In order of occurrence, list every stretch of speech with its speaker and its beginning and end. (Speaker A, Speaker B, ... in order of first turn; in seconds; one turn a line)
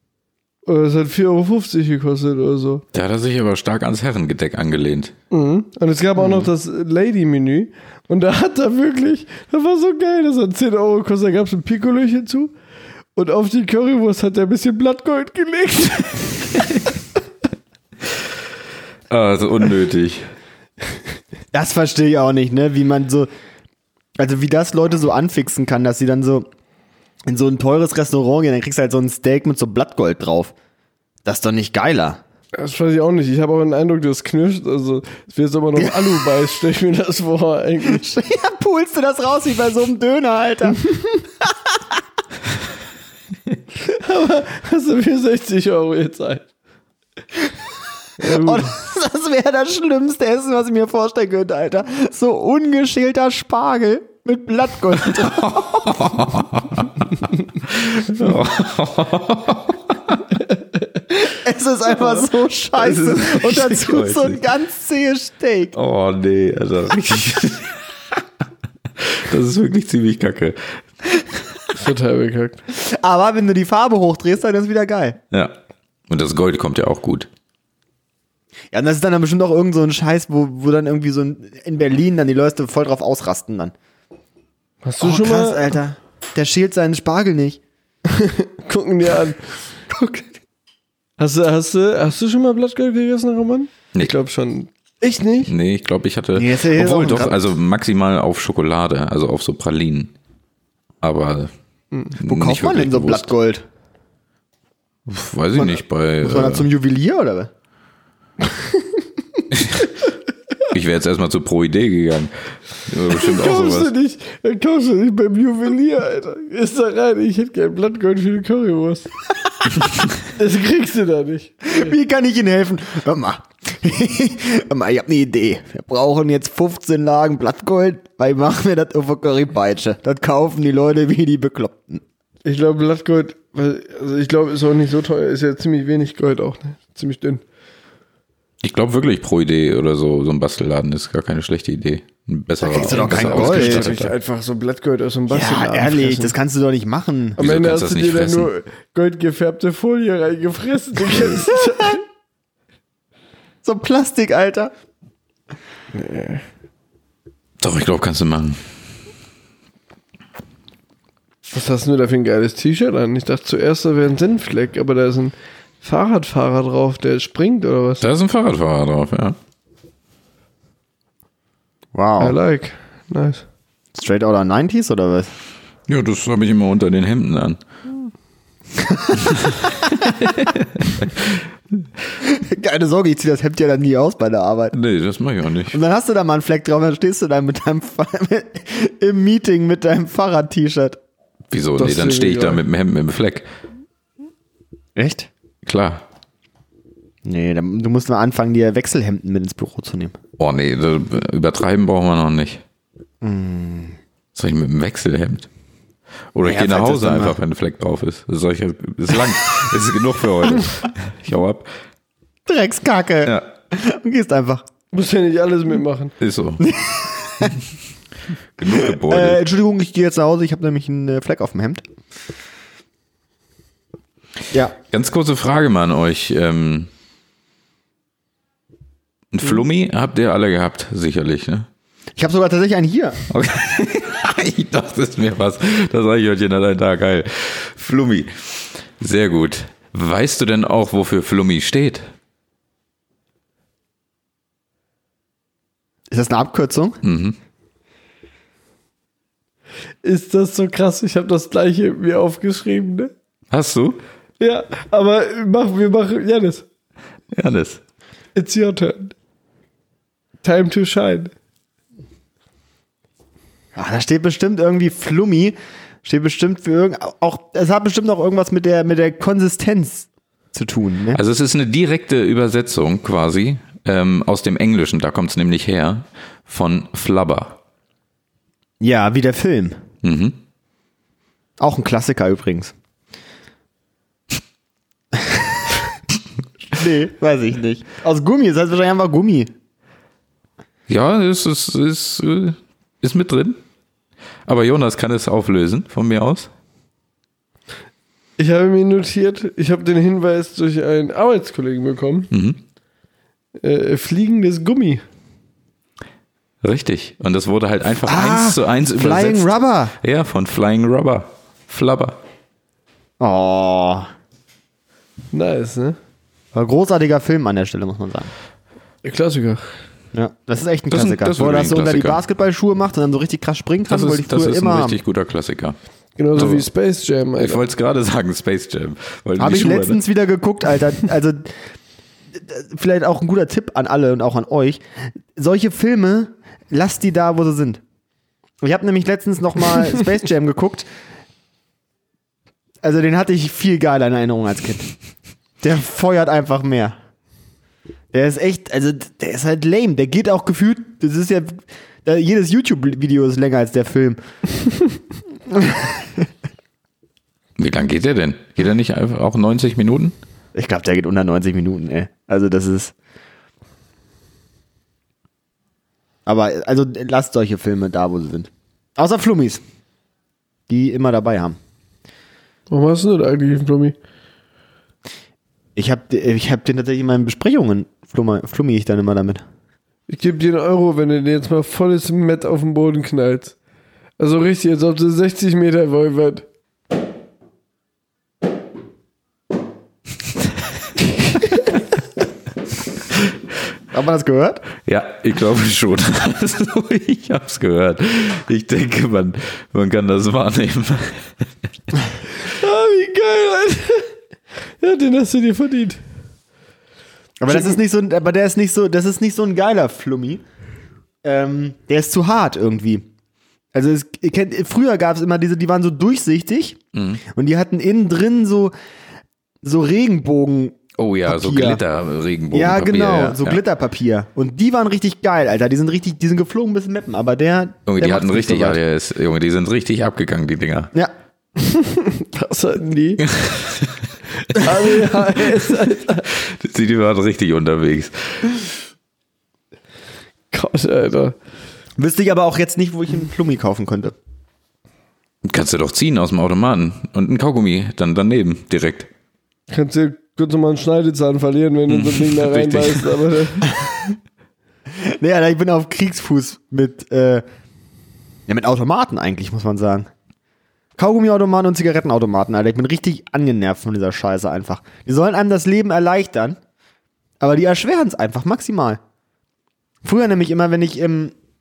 Speaker A: 0.7-2.8
Speaker B: 2.9-5.1
Speaker A: 5.3-12.5
Speaker A: 13.2-16.7
Speaker B: 19.1-20.3
Speaker C: 21.5-23.3
Speaker C: 24.2-26.5
Speaker C: 27.3-30.5
Speaker C: 31.2-32.2
Speaker A: 32.5-38.0
Speaker C: 35.8-36.2
Speaker C: 37.9-40.9
Speaker A: 43.8-46.5
Speaker A: 48.2-48.7
Speaker C: 48.2-55.9
Speaker B: 55.1-57.1
Speaker B: 57.7-60.3
Speaker A: 60.5-60.8
Speaker C: 61.1-65.8
Speaker B: 62.8-64.4
Speaker B: 65.7-67.8
Speaker B: 69.0-71.3
Speaker A: 71.8-72.6
Speaker C: 72.7-75.2
Speaker B: 76.1-77.3
Speaker C: 78.7-83.7
Speaker A: 84.8-85.7
Speaker C: 85.0-87.6
Speaker A: 88.1-89.5
Speaker C: 89.9-90.3
Speaker A: 91.2-95.5
Speaker B: 95.5-100.1
Speaker C: 96.4-97.4
Speaker B: 101.0-101.5
Speaker B: 102.1-103.3
Speaker C: 102.2-103.6
Speaker B: 105.1-106.7
Speaker C: 105.6-107.5
Speaker A: 108.6-108.8
Speaker B: 109.5-109.9
Speaker B: 110.7-112.3
Speaker B: 112.9-113.9
Speaker A: 113.1-119.1
Speaker A: 120.3-121.9
Speaker C: 121.6-132.0
Speaker A: 132.4-137.4
Speaker B: 138.6-144.1
Speaker C: 142.6-143.9
Speaker A: 142.8-146.4
Speaker C: 145.3-147.4
Speaker A: 147.4-152.0
Speaker B: 147.4-148.5
Speaker C: 153.6-154.7
Speaker A: 155.9-156.4
Speaker B: 157.6-158.6
Speaker A: 161.5-168.1
Speaker B: 168.0-169.4
Speaker C: 171.9-172.4
Speaker A: 172.2-173.4
Speaker C: 173.9-175.3
Speaker B: 175.9-177.6
Speaker C: 178.8-179.8
Speaker B: 179.4-181.4
Speaker C: 182.2-184.7
Speaker B: 184.7-185.8
Speaker C: 185.7-191.0
Speaker B: 191.5-193.5
Speaker A: 191.8-192.6
Speaker C: 195.0-195.3
Speaker B: 195.7-196.0
Speaker C: 197.2-200.2
Speaker B: 200.4-202.6
Speaker C: 203.2-204.0
Speaker B: 204.3-205.5
Speaker B: 206.3-211.7
Speaker C: 206.4-207.4
Speaker C: 212.5-214.7
Speaker A: 214.9-216.2
Speaker B: 216.2-216.6
Speaker C: 216.6-217.6
Speaker B: 218.6-219.4
Speaker C: 218.7-221.8
Speaker B: 224.9-226.9
Speaker B: 229.3-231.7
Speaker C: 232.2-233.2
Speaker B: 233.3-242.1
Speaker C: 246.1-247.0
Speaker B: 247.0-247.4
Speaker A: 250.0-253.1
Speaker B: 253.5-254.0
Speaker A: 254.4-256.7
Speaker B: 257.3-257.8
Speaker A: 258.4-259.1
Speaker A: 260.4-261.3
Speaker C: 263.8-271.2
Speaker B: 271.1-277.6
Speaker C: 278.8-279.8
Speaker B: 280.0-280.4
Speaker C: 281.6-282.7
Speaker C: 286.7-289.5
Speaker B: 290.9-293.6
Speaker B: 294.5-296.5
Speaker A: 298.4-302.3
Speaker B: 302.3-302.6
Speaker A: 303.6-305.0
Speaker B: 306.6-312.2
Speaker C: 308.1-309.9
Speaker C: 313.2-314.1
Speaker A: 315.3-316.0
Speaker C: 316.5-318.3
Speaker A: 319.0-319.7
Speaker C: 320.1-325.0
Speaker B: 320.9-322.2
Speaker B: 323.9-325.8
Speaker A: 326.2-327.6
Speaker B: 326.3-326.7
Speaker B: 327.4-330.0
Speaker C: 329.4-331.5
Speaker C: 332.4-334.8
Speaker C: 335.3-337.8
Speaker C: 338.6-340.9
Speaker C: 342.8-344.9
Speaker C: 345.6-347.0
Speaker C: 348.1-354.2
Speaker C: 355.5-356.3
Speaker B: 357.6-360.1
Speaker C: 360.6-362.9
Speaker C: 366.3-369.6
Speaker C: 370.7-371.6
Speaker A: 372.7-374.0
Speaker C: 375.8-379.4
Speaker A: 380.1-383.6
Speaker A: 384.2-386.5
Speaker C: 393.9-394.6
Speaker B: 394.8-401.5
Speaker A: 402.4-404.1
Speaker A: 404.8-406.0
Speaker C: 407.4-410.4
Speaker A: 407.5-407.8
Speaker C: 411.2-413.0
Speaker C: 413.7-418.7
Speaker B: 416.9-417.2
Speaker C: 419.6-421.8
Speaker B: 421.0-423.6
Speaker C: 422.5-428.8
Speaker B: 427.9-430.9
Speaker A: 431.6-433.2
Speaker B: 433.3-434.0
Speaker A: 434.5-436.3
Speaker B: 436.3-438.6
Speaker A: 440.5-441.4
Speaker C: 442.0-444.1
Speaker B: 445.4-449.1
Speaker A: 449.7-453.7
Speaker B: 451.9-453.1
Speaker C: 455.0-457.4
Speaker C: 458.5-460.1
Speaker C: 461.0-466.6
Speaker C: 467.4-469.0
Speaker C: 470.0-471.3